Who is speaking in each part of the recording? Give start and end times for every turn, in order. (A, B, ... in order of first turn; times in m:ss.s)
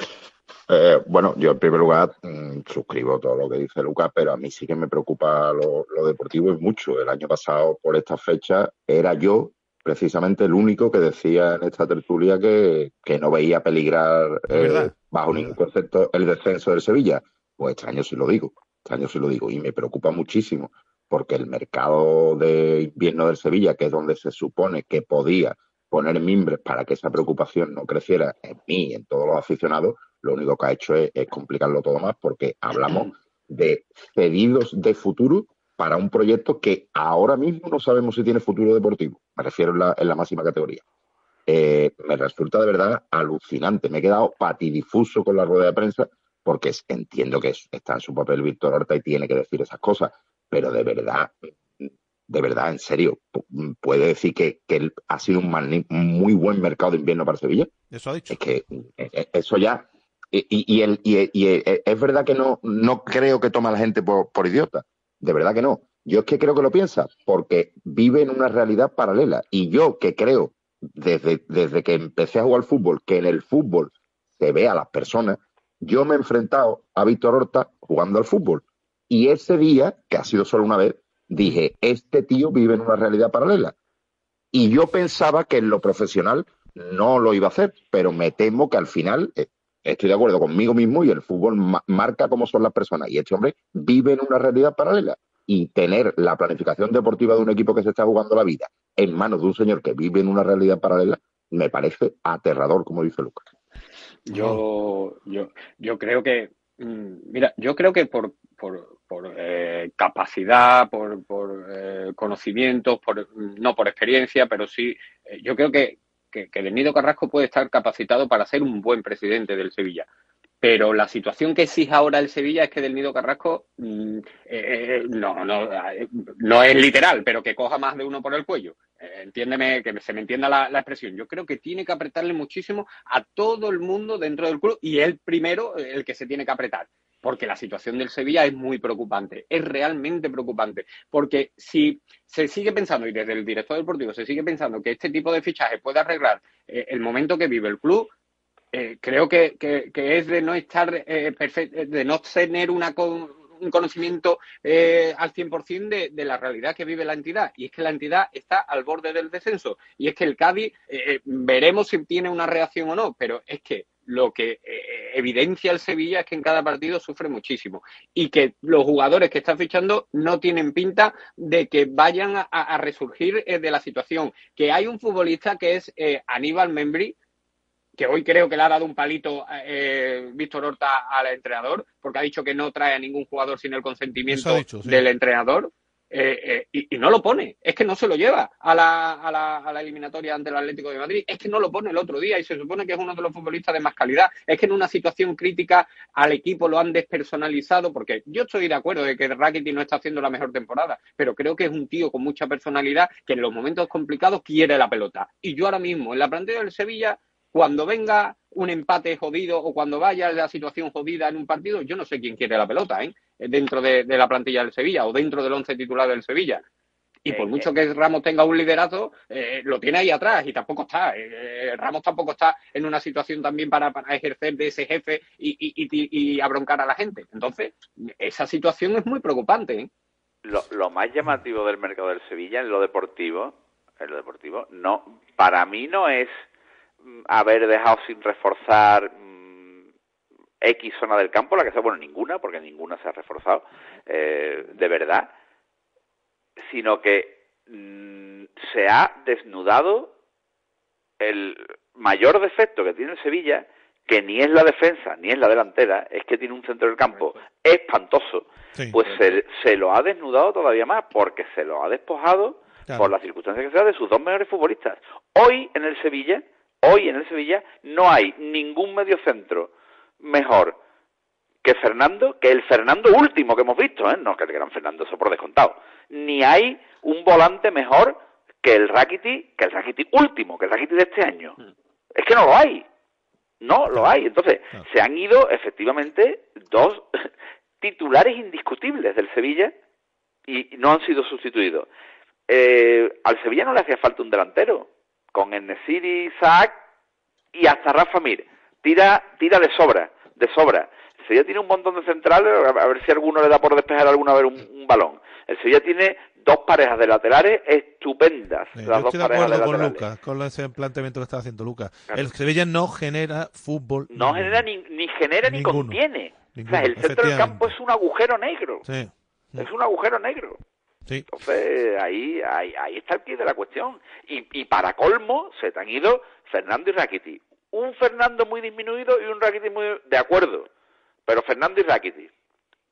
0:00.7-0:40.8 A
0:14.5-0:15.6 B
0:41.5-0:51.8 A
0:52.4-0:57.6 A
0:57.9-0:58.4 B
0:58.4-0:59.8 A
1:00.4-1:23.7 A
1:24.6-1:43.4 A
1:44.3-2:00.1 C
1:44.3-1:44.6 B
2:00.6-2:28.1 C
2:28.7-2:57.1 C
2:58.0-3:36.6 C
3:04.3-3:05.0 B
3:37.3-3:49.9 C
3:37.3-3:37.7 D
3:50.4-3:56.4 D
3:57.3-3:59.8 D
4:00.6-4:05.3 D
4:06.6-4:10.1 D
4:11.2-4:29.7 D
4:22.9-4:23.1 B
4:30.2-4:30.8 D
4:31.6-4:41.6 D
4:42.1-4:42.8 D
4:43.6-4:47.1 D
4:47.8-4:49.7 D
4:50.5-4:51.9 D
4:52.5-4:56.8 D
4:57.6-5:10.0 D
5:08.8-5:14.6 B
5:14.1-5:18.8 D
5:15.4-5:16.0 B
5:16.5-5:17.7 B
5:18.8-5:19.7 B
5:19.6-5:20.6 D
5:21.3-5:30.7 D
5:31.3-5:32.3 D